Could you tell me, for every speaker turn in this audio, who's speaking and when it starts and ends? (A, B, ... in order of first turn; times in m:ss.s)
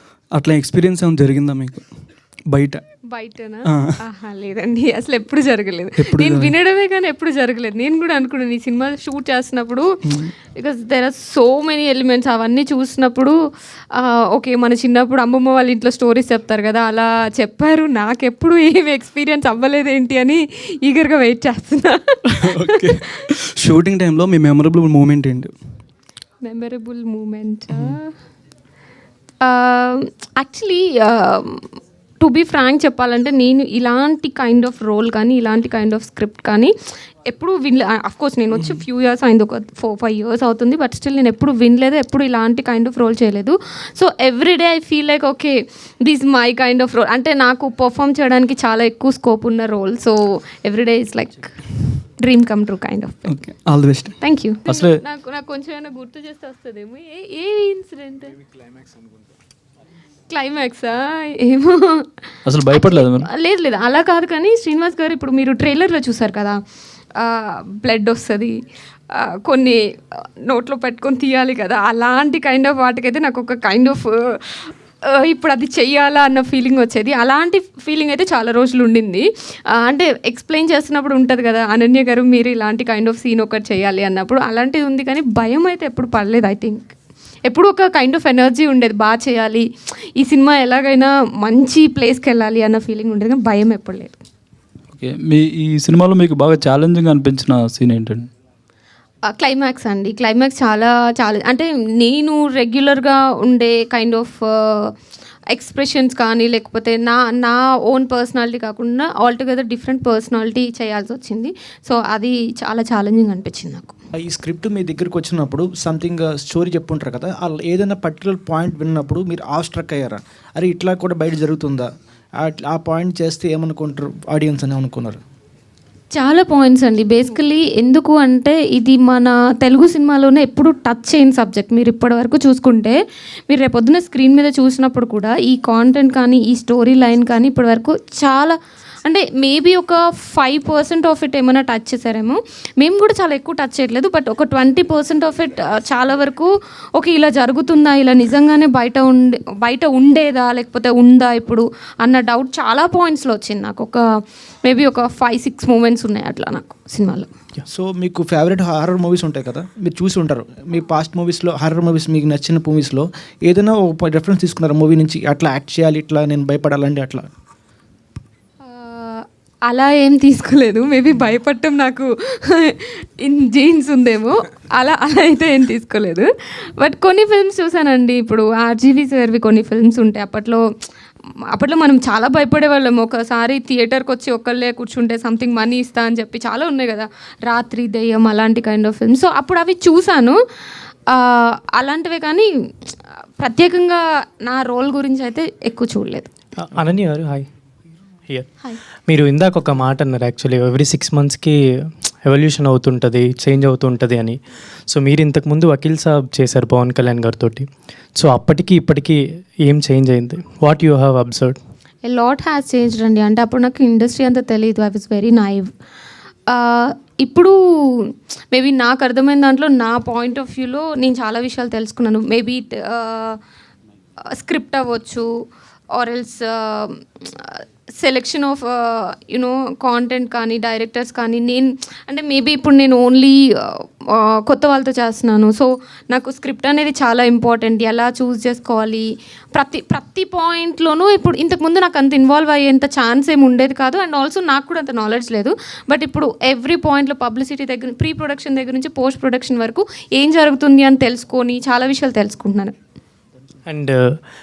0:00.3-0:02.8 A
0:03.1-0:09.9 B
0:03.7-0:04.0 A
0:06.0-0:06.5 A
0:10.0-0:10.3 A
0:10.5-0:13.4 B
0:13.9-0:23.0 B
0:22.3-0:25.5 A
0:26.4-0:28.1 B
0:29.4-0:31.7 B
0:32.2-0:36.7 B
0:37.2-0:51.6 B
0:52.2-0:53.5 B
0:53.3-0:54.2 A
0:54.2-0:58.4 B
1:00.3-1:02.1 B
1:02.6-1:03.2 C
1:02.7-1:06.6 B
1:07.2-1:08.6 B
1:09.1-1:26.9 B
1:27.4-1:29.6 B
1:30.2-1:34.2 B
1:35.0-1:38.2 C
1:39.3-1:44.9 B
1:45.5-1:53.9 B
1:54.2-2:05.2 D
2:06.1-2:13.0 B
2:13.5-2:34.0 B
2:34.6-2:37.3 B
2:37.7-2:47.3 D
2:48.6-2:56.3 B
2:56.8-3:00.6 B
3:01.5-3:10.4 B
3:11.1-3:16.3 B
3:16.6-3:17.5 E
3:19.1-3:21.5 E
3:22.2-3:24.4 E
3:24.9-3:27.6 E
3:28.2-3:31.6 E
3:32.0-3:35.7 B
3:36.5-3:43.4 B
3:44.3-3:45.3 B
3:45.9-4:12.7 B
4:13.7-4:14.0 E